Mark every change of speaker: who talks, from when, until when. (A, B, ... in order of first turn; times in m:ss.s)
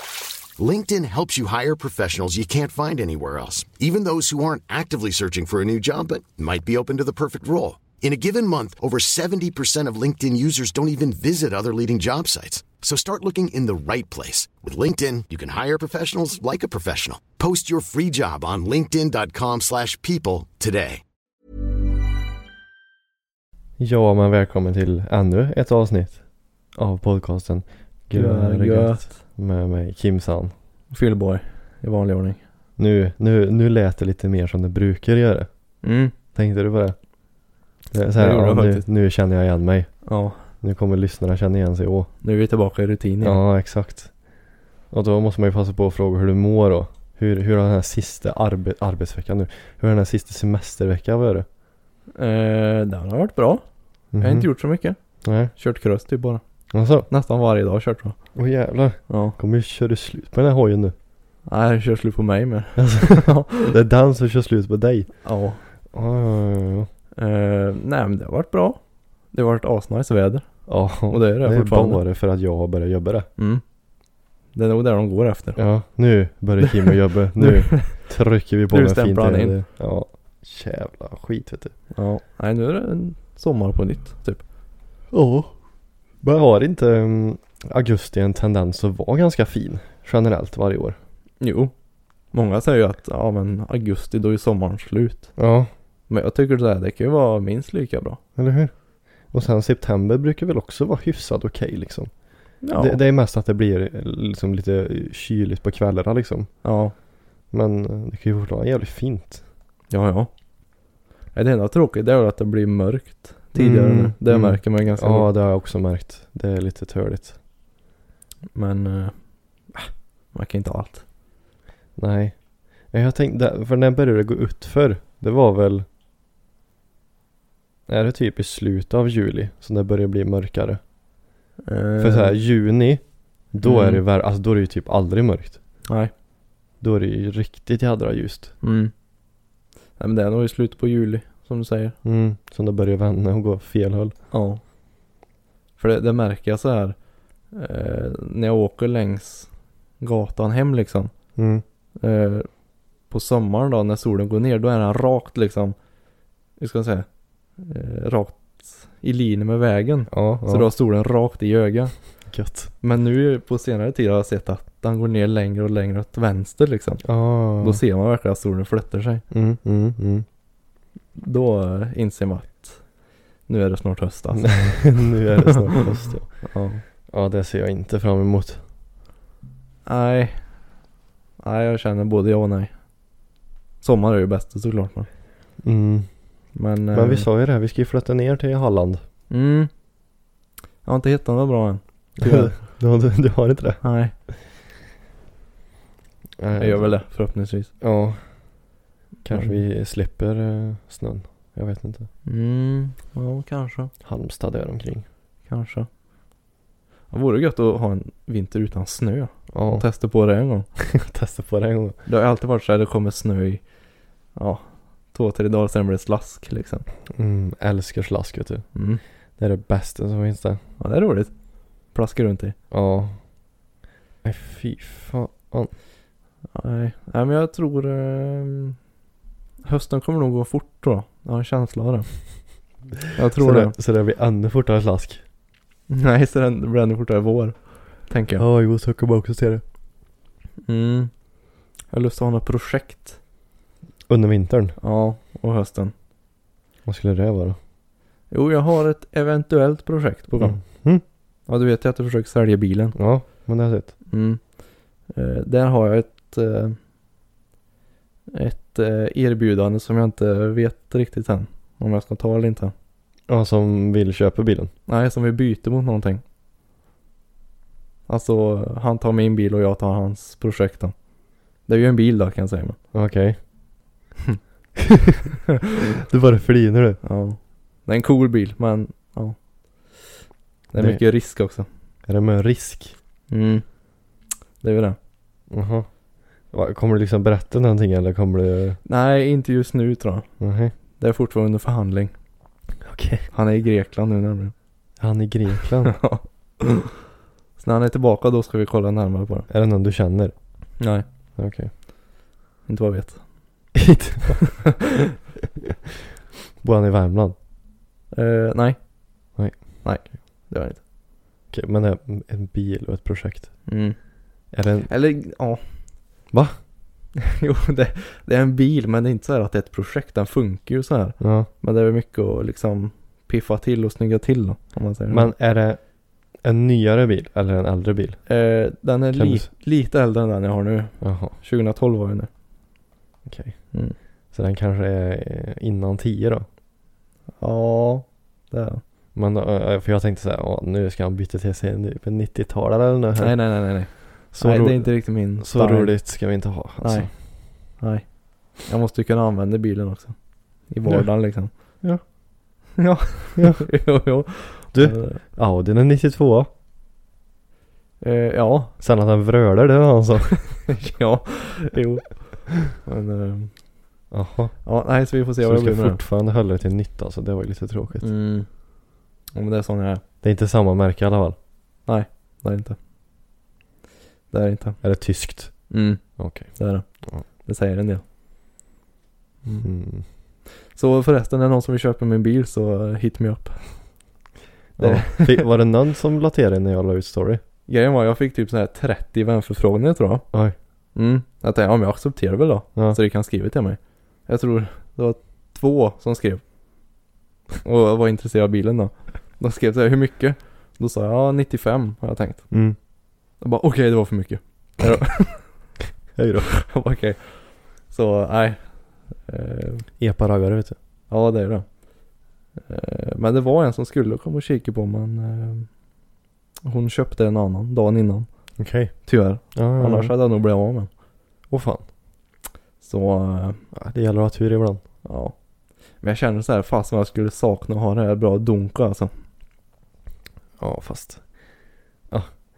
0:00.5-0:21.0 A
0:23.8-0:30.5 B
0:28.1-0:29.2 C
0:30.9-0:32.4 C
0:32.8-0:35.5 B
0:35.8-0:36.1 C
0:36.3-0:37.0 B
0:37.9-0:42.1 B
0:38.1-0:38.8 C
0:40.0-0:40.4 C
0:42.2-0:43.4 C
0:43.2-0:44.2 B
0:44.9-0:51.4 B
0:52.2-0:53.6 C
0:54.1-0:54.5 B
0:54.2-0:56.4 C
0:55.2-0:55.5 B
0:56.7-0:57.1 B
0:56.9-0:58.3 C
0:58.3-1:00.9 B
0:59.1-0:59.4 C
1:01.4-1:03.7 C
1:02.8-1:05.3 B
1:05.2-1:05.6 C
1:05.9-1:06.9 B
1:07.2-1:12.0 C
1:10.7-1:13.3 B
1:13.4-1:13.6 C
1:14.5-1:15.6 C
1:15.6-1:21.7 B
1:16.6-1:18.1 C
1:18.7-1:19.6 C
1:21.9-1:24.4 C
1:25.1-1:25.5 B
1:26.2-1:31.0 B
1:31.4-1:31.7 C
1:32.3-1:35.3 C
1:35.4-1:35.7 B
1:36.1-1:38.2 C
1:38.4-1:38.7 B
1:39.3-1:42.1 B
1:42.6-1:43.0 C
1:42.7-1:46.5 B
1:46.6-1:46.9 C
1:47.5-1:49.4 B
1:49.9-1:50.3 C
1:51.3-1:55.3 C
1:53.5-1:57.4 B
1:58.5-1:59.8 C
2:00.3-2:01.0 C
2:02.0-2:05.8 B
2:07.9-2:10.8 B
2:11.7-2:12.4 C
2:12.0-2:15.6 B
2:13.6-2:14.0 C
2:15.9-2:16.1 C
2:16.8-2:18.5 B
2:18.6-2:18.9 C
2:20.0-2:22.0 C
2:22.0-2:24.1 B
2:24.3-2:24.6 C
2:25.8-2:27.0 C
2:27.5-2:31.1 C
2:31.4-2:31.6 B
2:32.0-2:32.5 C
2:33.1-2:35.7 C
2:36.6-2:42.2 C
2:40.1-2:40.7 B
2:42.3-2:42.7 B
2:42.8-2:49.2 C
2:47.0-2:47.8 B
2:49.3-2:50.2 B
2:51.1-2:52.9 C
2:53.4-2:55.5 C
2:54.4-2:58.6 B
2:56.4-2:56.8 C
2:59.8-3:00.6 C
3:01.4-3:02.8 C
3:03.8-3:05.1 C
3:05.6-3:06.1 B
3:06.5-3:07.3 C
3:06.9-3:09.0 B
3:09.3-3:09.7 C
3:10.8-3:12.6 C
3:12.2-3:13.8 B
3:13.8-3:14.1 C
3:16.4-3:17.0 B
3:16.6-3:17.7 C
3:17.8-3:18.7 B
3:19.2-3:22.1 B
3:19.3-3:19.6 C
3:22.2-3:23.9 C
3:24.0-3:25.0 B
3:25.5-3:25.9 C
3:27.1-3:30.7 C
3:29.5-3:29.8 B
3:30.8-3:32.0 B
3:32.0-3:33.6 C
3:34.3-3:36.8 C
3:37.1-3:38.7 B
3:38.7-3:39.0 C
3:39.4-3:40.6 B
3:40.8-3:41.3 C
3:41.9-3:42.5 C
3:42.7-3:43.2 B
3:44.2-3:45.7 B
3:46.5-3:48.8 C
3:49.6-3:52.5 C
3:53.1-3:53.7 C
3:53.4-3:55.2 B
3:55.9-3:58.4 C
3:58.4-3:59.6 B
4:00.6-4:01.1 C
4:01.9-4:03.2 C
4:04.1-4:04.8 B
4:04.8-4:05.9 C
4:06.8-4:07.6 B
4:08.3-4:10.6 C
4:10.4-4:11.0 B
4:11.5-4:13.0 C
4:12.9-4:13.9 B
4:14.1-4:14.4 C
4:15.1-4:16.8 C
4:18.3-4:22.7 C
4:23.3-4:24.7 B
4:24.9-4:26.2 C
4:28.1-4:31.0 C
4:31.6-4:32.8 C
4:32.9-4:33.4 B
4:34.9-4:35.2 B
4:35.9-4:37.0 B
4:37.0-4:40.1 C
4:40.7-4:41.7 C
4:40.8-4:41.0 B
4:42.0-4:42.9 B
4:43.3-4:43.7 C
4:44.6-4:45.0 C
4:45.5-4:45.9 B
4:46.4-4:48.8 B
4:48.8-4:50.3 C
4:50.4-4:50.7 B
4:50.9-4:52.1 C
4:52.8-4:53.3 B
4:53.3-4:54.5 C
4:55.0-4:56.0 B
4:55.8-4:56.9 C
4:57.6-4:59.5 C
4:59.5-5:00.3 B
5:00.8-5:01.0 C
5:01.4-5:01.7 B
5:02.6-5:03.7 C
5:03.7-5:04.4 B
5:06.6-5:07.3 B
5:08.1-5:10.8 C
5:09.4-5:10.1 B
5:11.5-5:13.8 B
5:13.7-5:14.1 C
5:14.5-5:14.9 B
5:14.9-5:16.0 C
5:16.3-5:16.6 B
5:17.3-5:25.3 C
5:21.2-5:21.5 B
5:25.1-5:28.2 B
5:28.2-5:32.3 C
5:29.1-5:29.5 B
5:31.0-5:31.4 B
5:33.2-5:33.8 B
5:34.3-5:36.4 B
5:37.4-5:38.8 C
5:39.1-5:47.1 B
5:43.2-5:46.3 C
5:46.8-5:51.8 C
5:52.8-5:55.2 C
5:54.7-5:56.5 B
5:58.0-5:58.7 C
5:58.8-6:00.7 B
6:00.6-6:03.6 C
6:04.1-6:04.6 B
6:04.6-6:06.0 C
6:05.4-6:08.1 B
6:08.0-6:08.5 C
6:09.3-6:10.0 C
6:10.2-6:11.4 B
6:11.8-6:12.8 C
6:14.3-6:15.0 C
6:14.8-6:17.2 B
6:15.7-6:18.0 C
6:19.4-6:19.7 C
6:19.6-6:20.0 B
6:20.7-6:24.1 C
6:24.8-6:25.5 C
6:24.8-6:27.4 B
6:27.7-6:30.3 C
6:30.9-6:36.4 C
6:37.6-6:42.5 C
6:42.5-6:42.8 B
6:43.4-6:45.7 C
6:46.2-6:46.5 B
6:46.5-6:49.9 C
6:50.0-6:50.8 B
6:51.1-6:51.8 C
6:52.6-6:55.8 C
6:56.6-7:00.9 C
6:58.6-7:00.1 B
7:01.5-7:01.8 B
7:02.8-7:03.6 C
7:03.7-7:04.8 B
7:05.0-7:05.4 C
7:06.0-7:09.1 C
7:10.6-7:11.2 B
7:12.1-7:12.3 B